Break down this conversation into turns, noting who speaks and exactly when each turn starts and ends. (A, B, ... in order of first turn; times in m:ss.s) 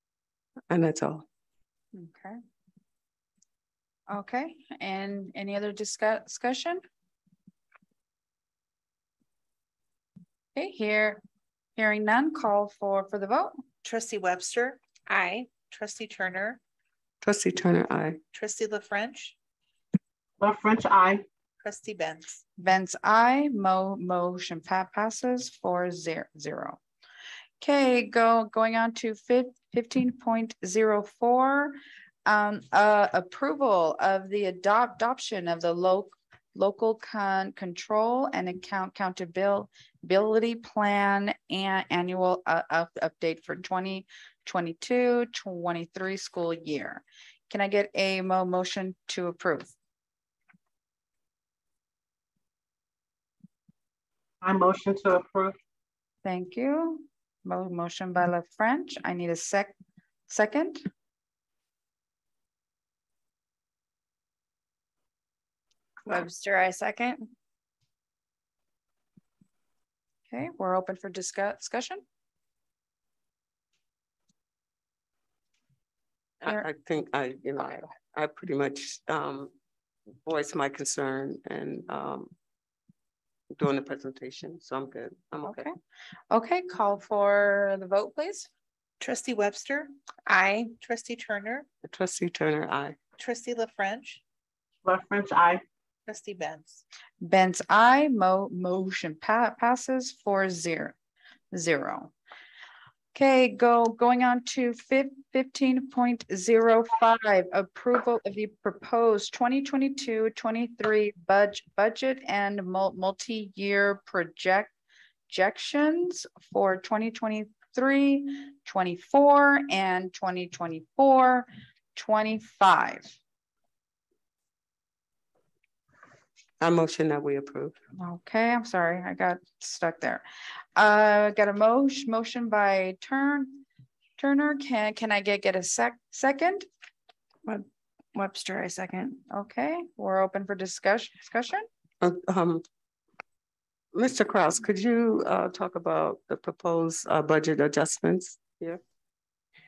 0:00.7-0:01.3 A
0:01.9-0:02.4 B
0:04.1-0:06.8 B
0:10.6-0:11.2 B
0:11.8-0:13.6 B
0:13.8-0:14.8 C
0:15.1-0:15.6 D
0:15.6-0:16.6 C
0:17.2-0:18.2 A
0:18.3-0:19.4 C
0:20.4-0:21.2 E
0:21.6-0:22.4 C
0:22.6-0:26.8 B
0:27.6-0:49.7 B
0:54.4-0:55.6 E
0:56.2-0:59.7 B
1:00.3-1:00.8 B
1:06.1-1:07.3 D
1:10.3-1:12.0 B
1:16.5-1:19.5 A
1:20.3-1:22.3 A
1:23.5-1:25.7 A
1:25.4-1:25.7 B
1:26.3-1:28.5 B
1:29.0-1:29.9 C
1:30.3-1:30.7 D
1:30.8-1:31.7 C
1:31.8-1:33.0 A
1:33.2-1:34.2 C
1:34.8-1:35.6 E
1:36.1-1:36.8 C
1:37.2-1:41.0 B
1:41.5-1:42.1 B
1:43.1-1:54.7 B
1:55.3-2:03.2 B
2:06.6-2:07.8 A
2:08.0-2:10.2 B
2:10.8-2:13.6 B
2:14.2-2:16.7 B
2:17.5-2:19.2 D
2:19.3-2:21.7 B
2:22.0-2:22.6 A
2:23.9-2:28.8 A